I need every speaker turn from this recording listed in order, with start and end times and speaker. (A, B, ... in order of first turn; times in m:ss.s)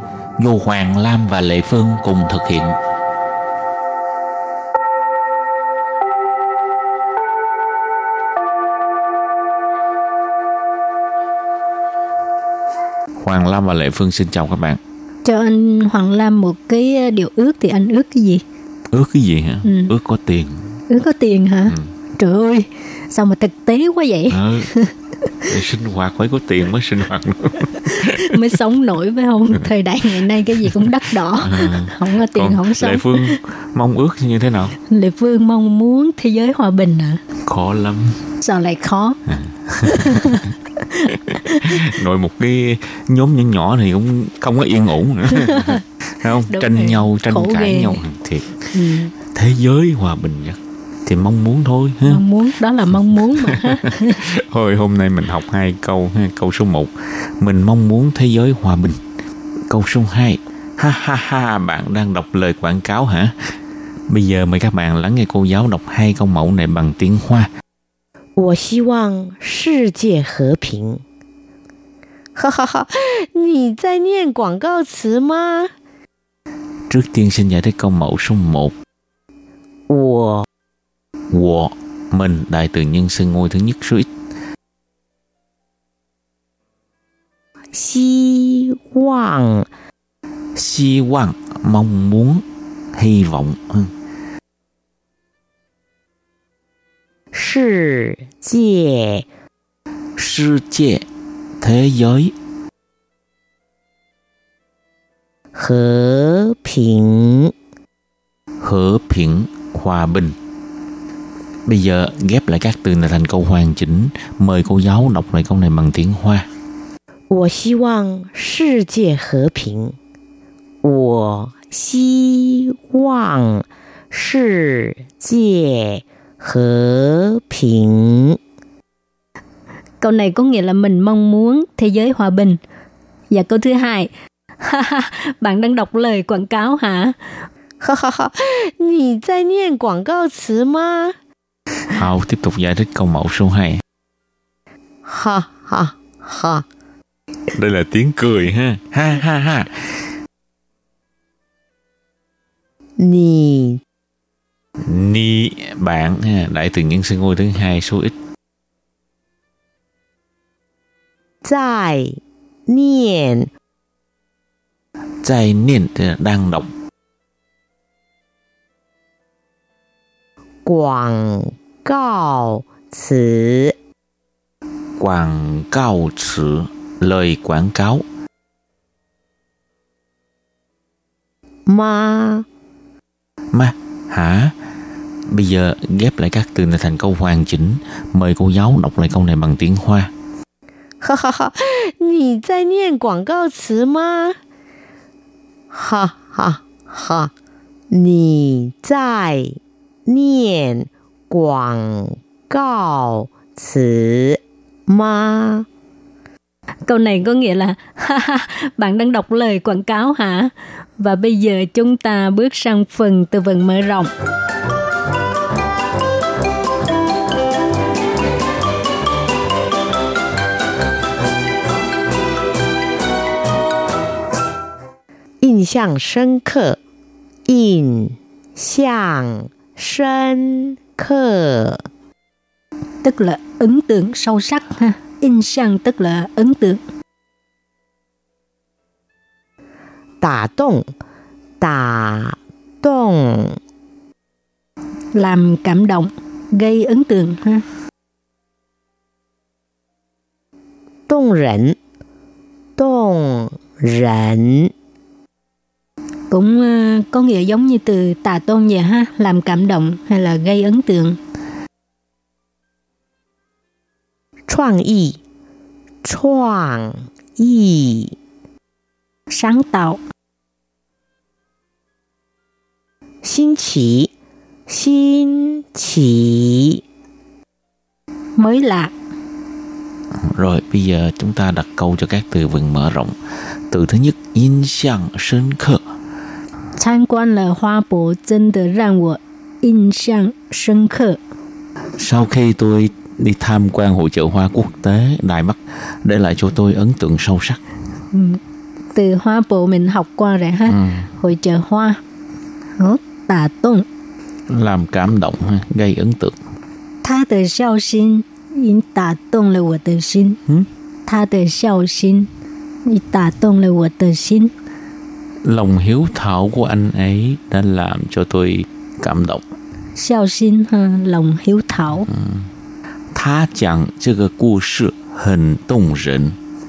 0:00.4-0:02.8 A
0:13.2-0:14.8 A
0:15.2-0:18.4 B
0:18.9-0:20.6 A
0:19.6-0:19.9 B
0:20.9-0:24.9 B
0:24.3-0:24.7 A
0:25.4-0:28.4 A
0:27.9-0:33.4 B
0:31.4-0:34.8 A
0:34.8-0:37.2 B
0:37.4-0:38.2 A
0:38.4-0:39.2 B
0:39.5-0:40.5 A
0:39.9-0:40.5 B
0:41.3-0:41.8 B
0:41.3-0:48.6 A
0:45.4-0:45.8 B
0:46.5-0:48.0 B
0:48.7-0:49.1 B
0:49.3-0:52.2 A
0:52.0-0:54.2 B
0:53.4-0:59.0 A
0:59.7-1:03.3 A
1:04.1-1:07.5 A
1:08.4-1:11.0 C
1:12.4-1:15.7 C
1:16.9-1:18.7 A
1:19.9-1:20.5 C
1:21.3-1:24.1 A
1:27.7-1:29.7 C
1:30.6-1:32.4 A
1:33.0-1:33.9 A
1:37.3-1:39.3 C
1:40.2-1:41.1 A
1:41.6-1:42.3 A
1:45.5-1:47.5 C
1:48.6-1:50.3 A
1:51.7-1:56.4 A
1:57.3-2:00.0 C
2:00.8-2:08.4 C
2:10.0-2:12.6 B
2:13.3-2:17.2 B
2:17.8-2:21.1 C
2:21.9-2:23.8 A
2:25.0-2:26.6 C
2:27.5-2:29.7 A
2:33.0-2:33.8 C
2:34.8-2:38.1 A
2:41.4-2:43.5 C
2:45.2-2:46.7 A
2:50.7-2:53.7 C
2:55.0-2:58.0 A
3:01.7-3:02.5 C
3:03.5-3:04.5 A
3:05.3-3:10.1 A
3:11.0-3:14.4 C
3:15.7-3:17.3 C
3:17.9-3:25.7 C
3:26.8-3:34.1 B
3:45.4-3:46.8 C
3:47.5-3:51.8 C
3:53.0-3:56.8 B
4:00.2-4:00.9 C
4:01.6-4:03.6 C
4:05.1-4:07.6 B
4:11.1-4:11.8 C
4:12.8-4:14.7 C
4:16.3-4:21.2 B
4:24.5-4:25.2 C
4:26.0-4:28.2 C
4:29.3-4:30.0 B
4:33.2-4:34.1 C
4:34.7-4:36.8 C
4:38.4-4:38.9 B
4:40.2-4:43.1 A
4:43.7-4:45.8 A
4:46.8-4:51.2 B
4:52.0-4:57.6 A
4:58.1-4:58.4 B
4:58.9-5:02.0 B
5:02.8-5:03.8 B
5:04.5-5:06.3 A
5:07.0-5:10.4 B
5:11.1-5:12.3 B
5:12.8-5:14.5 B
5:15.4-5:19.4 A
5:20.0-5:22.1 B
5:23.1-5:26.4 A